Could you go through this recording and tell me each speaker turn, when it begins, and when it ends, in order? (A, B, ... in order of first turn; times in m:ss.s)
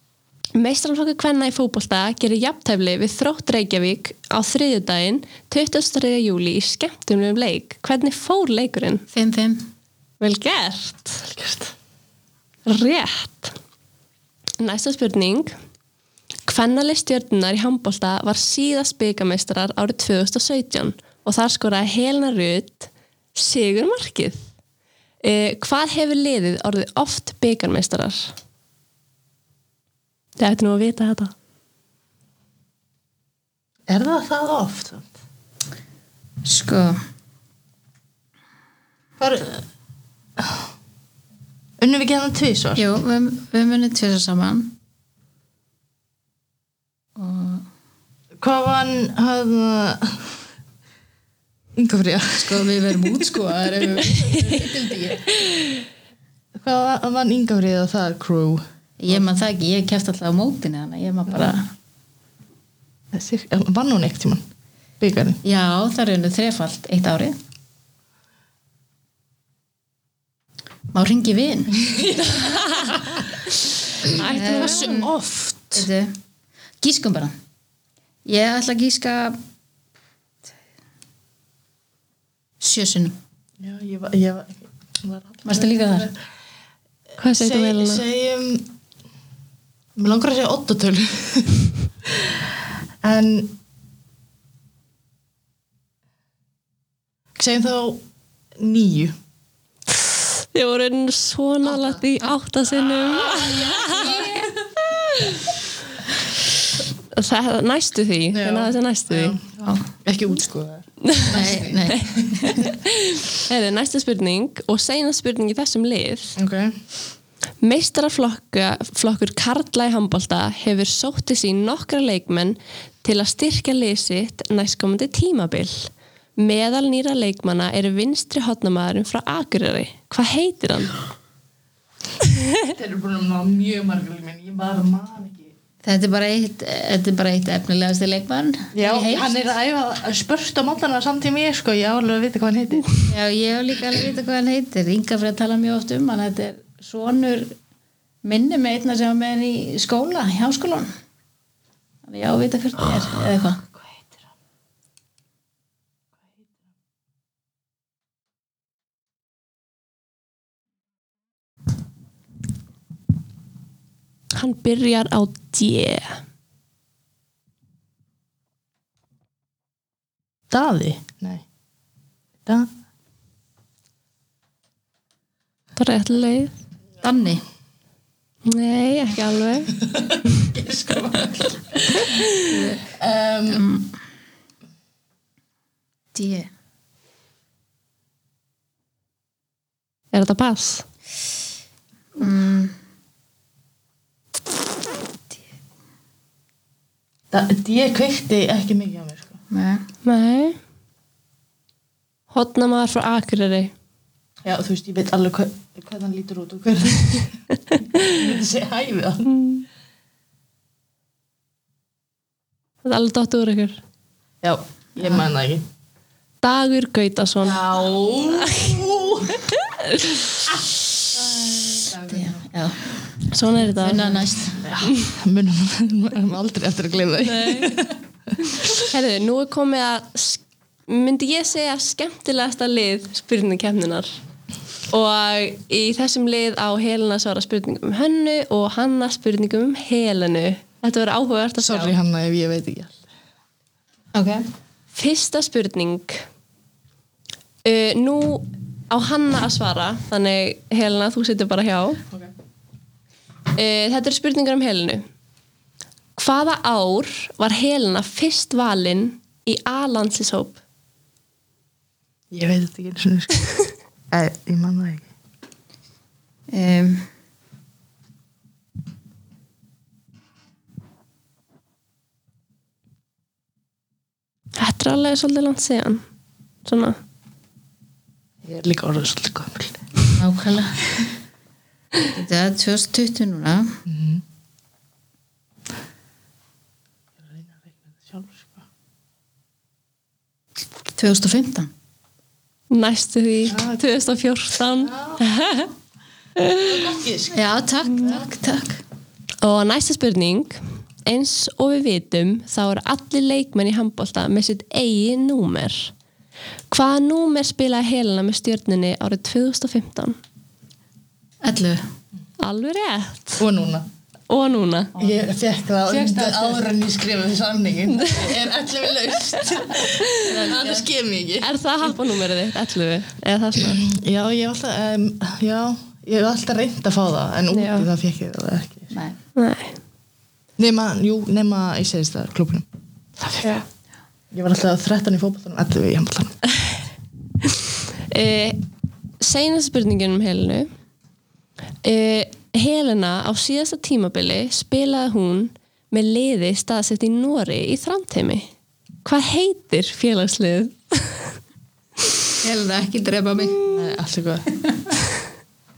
0:00.5-0:09.0 A
0:09.1-0:09.7 B
0:10.2-0:11.3 A
0:11.3-0:11.7 C
0:12.6-0:13.5 A
0:14.6-0:15.5 A
0:16.4-0:24.4 A
0:25.2-0:28.3 A
0:30.4-0:31.3 A
0:33.9-0:35.1 C
0:36.4-0:37.0 B
0:39.2-0:39.6 C
0:40.4-0:40.6 C
0:41.8-0:42.8 C
0:42.8-0:44.8 B
0:47.2-0:47.7 B
0:48.4-0:50.4 C
0:51.8-0:53.1 C
0:52.4-0:54.4 B
0:53.7-0:55.3 C
0:56.5-0:58.6 C
0:59.0-1:01.7 B
1:03.1-1:04.4 C
1:05.0-1:05.4 C
1:05.4-1:07.4 B
1:10.9-1:11.8 B
1:11.7-1:12.7 C
1:12.4-1:13.0 A
1:14.0-1:15.7 C
1:14.1-1:15.1 A
1:14.2-1:15.1 B
1:15.7-1:16.1 B
1:16.8-1:17.3 B
1:18.2-1:19.4 B
1:22.6-1:23.2 B
1:23.6-1:26.2 C
1:25.4-1:26.1 B
1:27.2-1:28.0 A
1:27.2-1:28.7 C
1:30.0-1:33.6 C
1:37.4-1:38.0 C
1:38.6-1:39.2 C
1:40.5-1:44.3 A
1:41.6-1:42.0 C
1:43.2-1:44.3 C
1:43.9-1:44.5 B
1:44.9-1:45.5 A
1:47.1-1:49.4 A
1:48.3-1:49.4 C
1:49.6-1:49.9 B
1:50.0-1:52.8 C
1:51.0-1:56.4 A
1:51.3-1:52.7 B
1:56.4-1:56.8 C
1:57.6-2:11.0 A
2:12.2-2:12.6 A
2:12.6-2:15.5 C
2:15.8-2:19.4 B
2:18.7-2:22.9 C
2:23.1-2:27.5 B
2:28.2-2:30.9 B
2:32.0-2:33.6 B
2:44.3-2:46.2 A
2:50.5-2:51.4 C
2:55.8-2:56.5 A
2:57.0-2:57.4 B
2:58.4-2:59.7 A
2:59.7-3:02.1 C
3:02.4-3:02.8 B
3:02.9-3:03.7 C
3:03.5-3:03.9 B
3:06.1-3:06.5 B
3:10.1-3:10.8 A
3:12.2-3:12.7 B
3:17.3-3:19.4 C
3:19.5-3:19.8 B
3:20.0-3:20.6 A
3:22.3-3:23.7 A
3:24.4-3:27.3 C
3:27.9-3:29.3 C
3:29.3-3:29.6 A
3:32.8-3:33.8 A
3:34.4-3:35.6 C
3:36.4-3:37.6 A
3:37.4-3:39.4 C
3:38.4-3:38.8 A
3:39.5-3:40.2 A
3:41.1-3:42.4 C
3:42.1-3:43.0 B
3:43.3-3:44.2 A
3:43.8-3:44.6 B
3:44.5-3:48.8 C
3:47.2-3:47.8 A
3:48.8-3:54.1 A
3:54.9-4:01.9 A
4:01.6-4:03.0 C
4:04.1-4:04.4 B
4:04.9-4:06.2 A
4:07.6-4:12.0 A
4:13.6-4:15.0 A
4:16.2-4:20.6 A
4:22.3-4:23.5 C
4:24.1-4:25.1 C
4:26.5-4:27.1 B
4:34.6-4:36.0 A
4:36.6-4:37.0 A
4:38.4-4:39.8 C
4:40.2-4:40.8 B
4:42.1-4:43.8 B
4:43.8-4:44.2 C
4:47.2-4:48.6 C
4:50.9-4:51.7 B
4:52.7-4:55.7 A
4:53.5-4:53.8 C
4:54.8-4:55.2 C
4:56.4-4:56.7 A
4:56.5-4:57.4 C
4:57.3-4:58.8 B
4:59.4-5:05.9 A
5:06.7-5:10.2 A
5:11.4-5:11.8 B
5:12.4-5:13.4 A
5:13.4-5:13.9 C
5:14.3-5:14.9 A
5:14.9-5:15.2 B
5:15.0-5:21.5 C
5:15.8-5:16.7 B
5:18.0-5:18.3 A
5:20.2-5:20.8 B
5:21.4-5:23.8 A
5:23.6-5:28.9 C
5:27.5-5:27.9 A
5:28.9-5:29.2 B
5:29.4-5:29.8 A
5:30.6-5:32.7 C
5:33.2-5:33.5 C
5:33.4-5:33.6 A
5:34.3-5:36.4 C
5:38.1-5:38.6 A
5:39.2-5:40.7 A
5:41.8-5:48.5 A
5:49.0-5:51.4 A
5:52.4-5:53.8 B
5:53.6-5:54.5 C